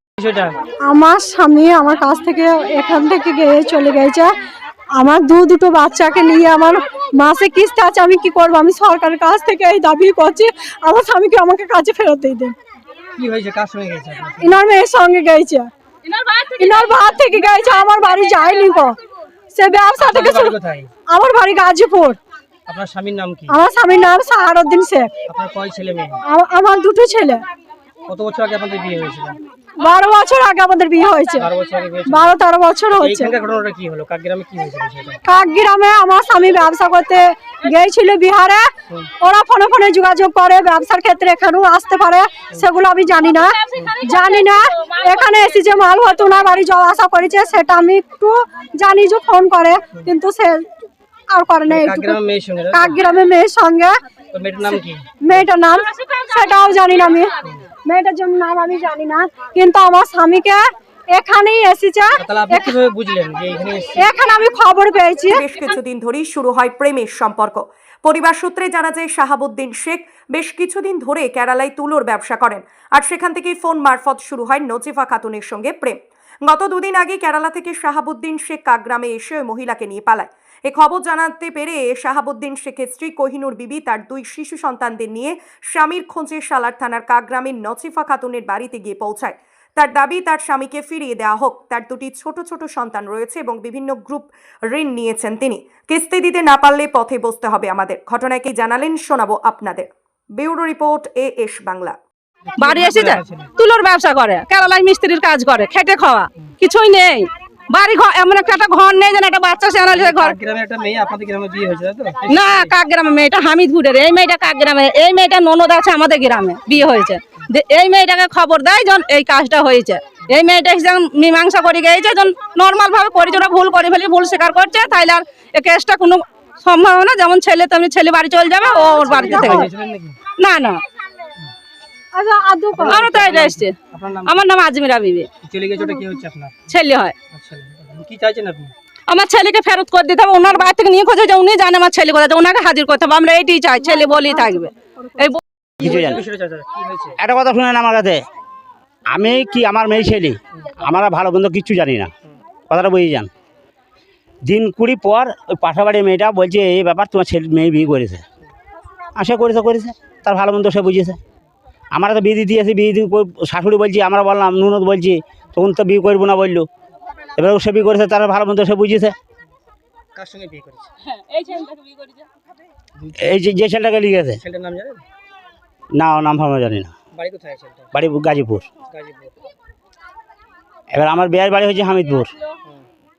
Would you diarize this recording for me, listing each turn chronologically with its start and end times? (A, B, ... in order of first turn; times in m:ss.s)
0:00.2-0:00.6 A
0:00.9-0:04.3 B
0:05.0-0:12.5 B
0:13.1-0:14.6 A
0:14.4-0:15.7 B
0:16.1-0:17.0 C
0:16.6-0:19.0 B
0:19.5-0:20.5 B
0:20.0-0:20.9 A
0:21.1-0:22.2 B
0:22.7-0:23.5 A
0:23.5-0:25.1 B
0:25.3-0:26.2 A
0:26.3-0:27.4 B
0:28.1-0:29.4 A
0:29.8-0:31.5 B
0:31.4-0:32.3 A
0:32.0-0:33.3 B
0:32.9-0:35.2 A
0:35.2-0:50.6 B
0:43.8-0:44.4 C
0:51.3-0:52.2 B
0:51.7-0:53.0 A
0:52.7-0:53.9 B
0:54.3-0:55.5 A
0:55.2-0:57.3 B
0:57.8-1:00.6 B
1:01.1-1:02.7 B
1:02.2-1:04.1 A
1:04.0-1:05.3 B
1:05.3-1:42.0 D
1:42.6-1:43.5 A
1:42.6-1:50.4 C
1:49.9-1:52.7 A
1:52.3-2:09.7 C
2:08.9-2:10.2 A
2:09.2-2:09.7 B
2:10.4-2:10.8 C
2:12.1-2:13.1 B
2:12.7-2:14.4 A
2:12.9-2:13.7 C
2:14.2-2:15.3 C
2:15.4-2:16.6 A
2:16.7-2:17.1 C
2:17.3-2:18.7 A
2:19.1-2:25.4 C
2:24.0-2:24.7 B
2:25.8-2:27.2 A
2:25.8-2:26.2 E
2:27.2-2:28.2 E
2:29.1-2:32.1 E
2:32.7-2:33.3 E
2:34.4-2:38.2 E
2:39.2-2:41.2 E
2:41.9-2:46.7 E
2:47.4-2:49.1 E
2:50.1-2:50.9 A
2:51.0-2:52.2 C
2:53.0-2:53.4 A
2:53.2-2:54.4 E
2:54.4-2:55.0 A
2:55.9-2:56.9 E
2:57.1-2:57.9 A
2:57.9-2:58.7 E
2:58.8-2:59.3 A
3:00.9-3:02.3 E